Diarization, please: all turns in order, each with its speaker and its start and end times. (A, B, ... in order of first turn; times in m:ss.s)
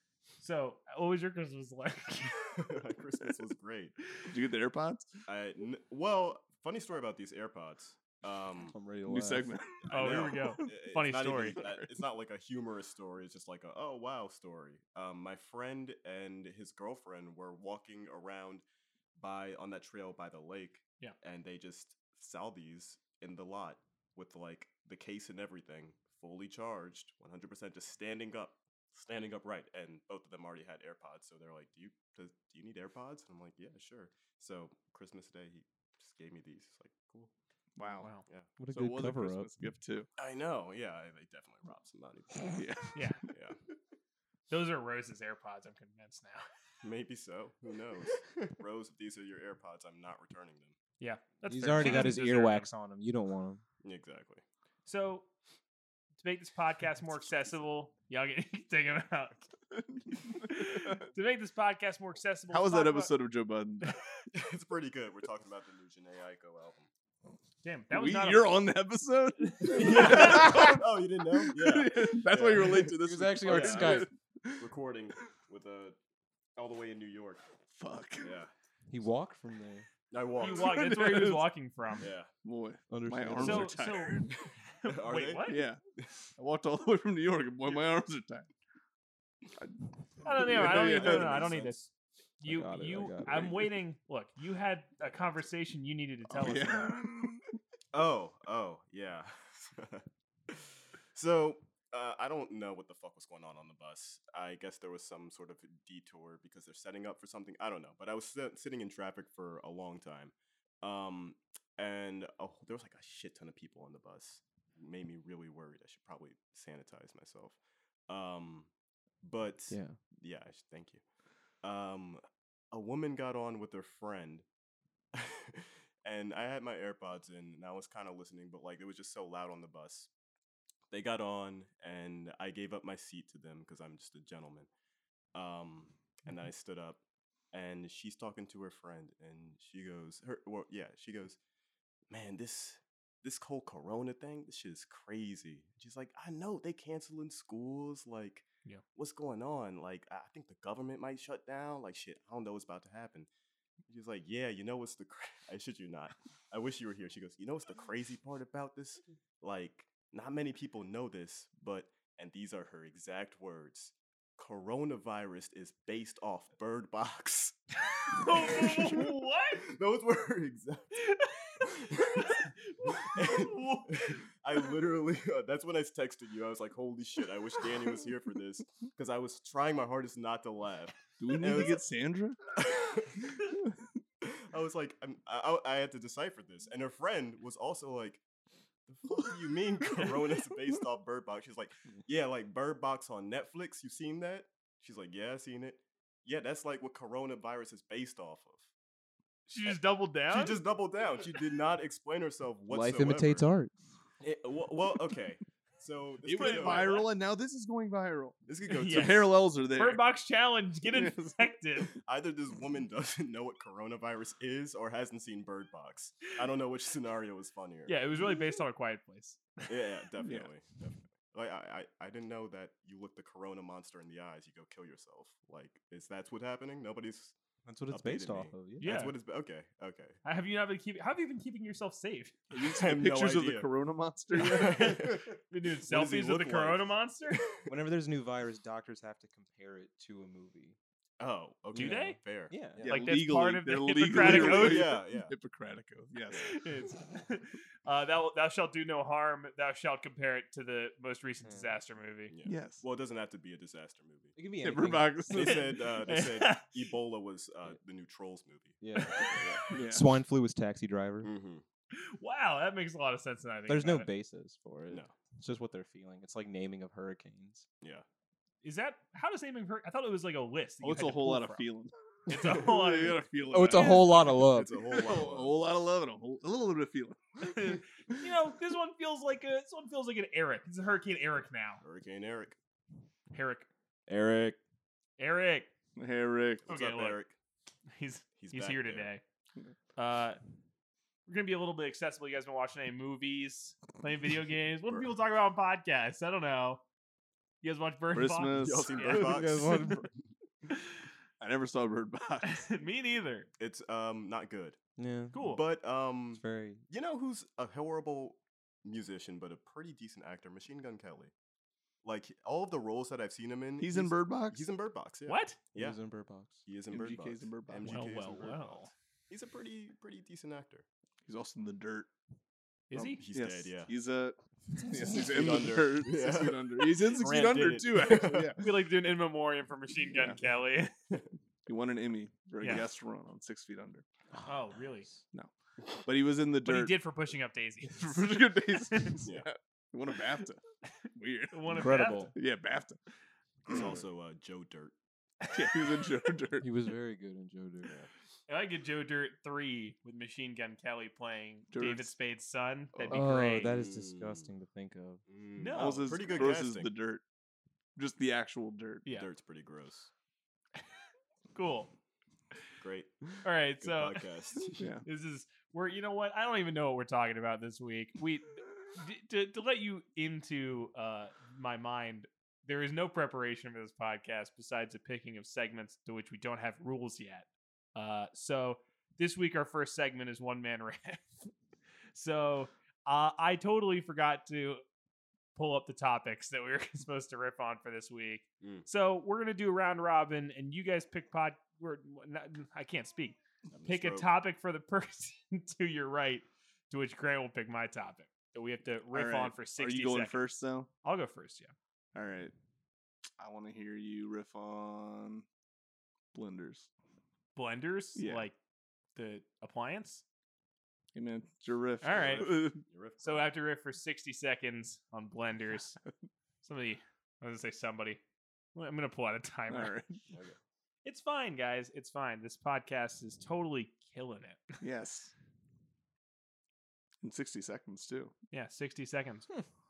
0:00.4-0:02.4 A
0:02.5-0:04.0 B
0:04.3-0:05.1 C
0:05.3-0:08.8 B
0:08.7-0:09.5 D
0:09.1-0:10.7 C
0:09.8-0:18.6 B
0:09.9-0:11.6 A
0:11.6-0:11.8 C
0:19.2-0:37.3 B
0:37.8-0:38.1 C
0:38.0-0:38.2 A
0:38.6-0:39.5 D
0:38.7-0:40.1 C
0:40.2-0:42.5 B
0:42.5-0:43.3 C
0:42.9-0:43.2 A
0:43.3-0:43.6 B
0:44.5-0:46.5 A
0:46.8-0:50.8 B
0:51.0-0:52.7 A
0:51.4-0:53.6 D
0:53.8-0:54.4 B
0:54.9-0:55.3 A
0:56.2-0:59.5 A
0:59.7-1:01.1 C
1:00.4-1:03.1 A
1:02.5-1:04.0 C
1:04.3-1:06.9 B
1:07.6-1:08.6 A
1:07.9-1:10.8 C
1:09.4-1:10.8 A
1:09.7-1:16.0 B
1:11.5-1:14.6 C
1:12.9-1:14.1 D
1:16.6-1:17.4 B
1:17.7-1:18.4 C
1:18.2-1:18.5 B
1:18.9-1:19.9 D
1:20.1-1:20.8 B
1:20.4-1:22.1 A
1:20.4-1:21.4 C
1:22.0-1:22.3 B
1:22.4-1:24.3 C
1:22.9-1:23.8 D
1:23.4-1:25.7 A
1:24.8-1:26.0 B
1:25.5-1:25.8 C
1:26.4-1:28.5 C
1:29.6-1:31.6 C
1:30.2-1:37.0 A
1:30.6-1:31.7 B
1:32.4-1:33.6 D
1:36.4-1:37.5 C
1:37.9-1:58.7 B
1:59.2-2:01.0 B
1:59.7-2:00.0 D
2:01.6-2:04.4 B
2:05.1-2:10.1 B
2:10.9-2:14.7 B
2:15.3-2:17.0 B
2:17.5-2:21.4 B
2:22.1-2:33.3 B
2:33.9-2:47.6 B
2:47.9-2:49.6 A
2:48.1-2:49.1 B
2:49.7-2:51.0 B
2:51.0-2:54.2 A
2:51.6-2:52.5 B
2:53.0-3:01.8 B
3:01.2-3:02.4 C
3:02.6-3:03.4 B
3:03.4-3:03.9 C
3:04.2-3:08.2 B
3:08.9-3:18.7 B
3:19.5-3:20.6 A
3:20.3-3:23.5 B
3:22.7-3:23.7 D
3:24.2-3:27.1 B
3:26.2-3:28.4 C
3:26.4-3:27.1 A
3:28.5-3:29.3 B
3:28.7-3:29.2 A
3:28.9-3:30.0 C
3:29.8-3:31.9 A
3:30.9-3:31.4 C
3:32.0-3:38.0 B
3:37.9-3:39.7 A
3:39.7-3:47.4 B
3:40.2-3:40.5 C
3:47.6-3:48.9 D
3:47.9-3:50.2 B
3:48.8-3:49.1 A
3:50.2-3:52.3 A
3:52.5-3:54.9 C
3:52.6-3:53.7 B
3:54.3-3:57.5 A
3:54.4-3:56.9 B
3:57.7-4:00.8 D
4:01.2-4:02.6 B
4:01.7-4:03.1 D
4:01.8-4:02.2 A
4:02.8-4:06.6 C
4:02.8-4:04.9 A
4:04.1-4:05.3 B
4:06.3-4:12.3 A
4:11.4-4:11.7 D
4:12.3-4:14.4 B
4:12.5-4:12.8 C
4:14.4-4:15.2 D
4:14.6-4:15.6 C
4:15.3-4:19.6 B
4:15.4-4:16.7 A
4:18.8-4:21.3 D
4:19.0-4:19.8 A
4:19.7-4:20.1 C
4:21.2-4:21.6 B
4:21.9-4:24.1 A
4:23.7-4:27.7 D
4:28.6-4:31.6 A
4:30.8-4:37.3 C
4:32.3-4:34.0 A
4:33.5-4:34.7 D
4:33.8-4:35.6 B
4:37.4-4:41.8 A
4:41.8-4:42.6 B
4:43.3-4:43.7 A
4:44.1-4:44.6 D
4:45.2-4:45.7 A
4:46.0-4:46.7 C
4:46.7-4:47.4 B
4:46.7-4:47.2 A
4:47.9-4:49.2 A
4:48.4-4:49.1 B
4:50.0-4:50.4 A
4:51.3-4:56.8 A
4:57.6-4:59.4 A
4:58.1-4:59.0 C
4:58.5-5:00.2 B
4:59.1-5:00.1 D
5:01.4-5:02.7 C
5:02.4-5:03.5 A
5:03.6-5:04.8 B
5:05.0-5:05.4 D
5:05.3-5:05.6 A
5:05.4-5:11.3 B
5:06.3-5:06.8 D
5:12.0-5:16.0 B
5:13.8-5:14.7 C
5:15.3-5:15.6 A
5:15.8-5:16.6 D
5:16.6-5:20.9 B
5:16.9-5:18.0 C
5:17.8-5:18.9 A
5:21.3-5:22.1 C
5:22.9-5:23.2 A
5:22.9-5:28.6 C
5:23.2-5:23.9 B
5:25.1-5:28.6 B
5:28.6-5:30.9 A
5:31.7-5:34.0 C
5:32.6-5:32.8 A
5:34.3-5:35.2 D
5:34.5-5:35.1 A
5:36.0-5:37.0 C
5:36.6-5:38.3 A
5:37.9-5:40.6 C
5:38.9-5:39.2 A
5:41.2-5:41.6 C
5:41.5-5:42.3 A
5:41.7-5:42.3 D
5:42.4-5:43.0 C
5:43.7-5:44.9 B
5:45.5-5:46.7 C
5:46.6-5:48.0 D
5:47.8-5:48.1 B
5:48.5-5:53.8 A
5:51.7-5:52.1 C
5:52.9-5:53.2 C
5:53.1-5:55.2 D
5:53.7-5:54.5 B
5:55.3-5:56.9 B
5:55.6-5:56.5 A
5:55.8-5:57.2 C
5:58.0-5:59.1 C
5:59.1-6:00.1 B
6:01.5-6:01.9 A
6:02.8-6:04.9 B
6:03.4-6:04.2 A
6:04.8-6:05.0 C
6:05.0-6:21.5 A
6:22.1-6:24.8 A
6:25.6-6:40.4 A
6:28.6-6:28.9 B
6:33.7-6:34.3 B
6:39.1-6:40.9 C
6:41.0-6:41.7 A
6:42.2-6:42.5 C
6:43.4-6:45.5 C
6:46.3-6:46.9 C
6:47.6-6:48.6 A
6:48.2-6:48.5 C
6:49.2-6:50.2 A
6:51.1-6:52.8 C
6:52.0-6:52.5 A
6:52.1-6:53.5 B
6:53.2-6:56.0 A
6:56.6-6:58.2 A
6:58.8-6:59.9 A
6:59.7-7:00.2 C
7:01.0-7:04.8 A
7:04.8-7:05.3 C
7:07.2-7:08.3 C
7:08.5-7:09.5 A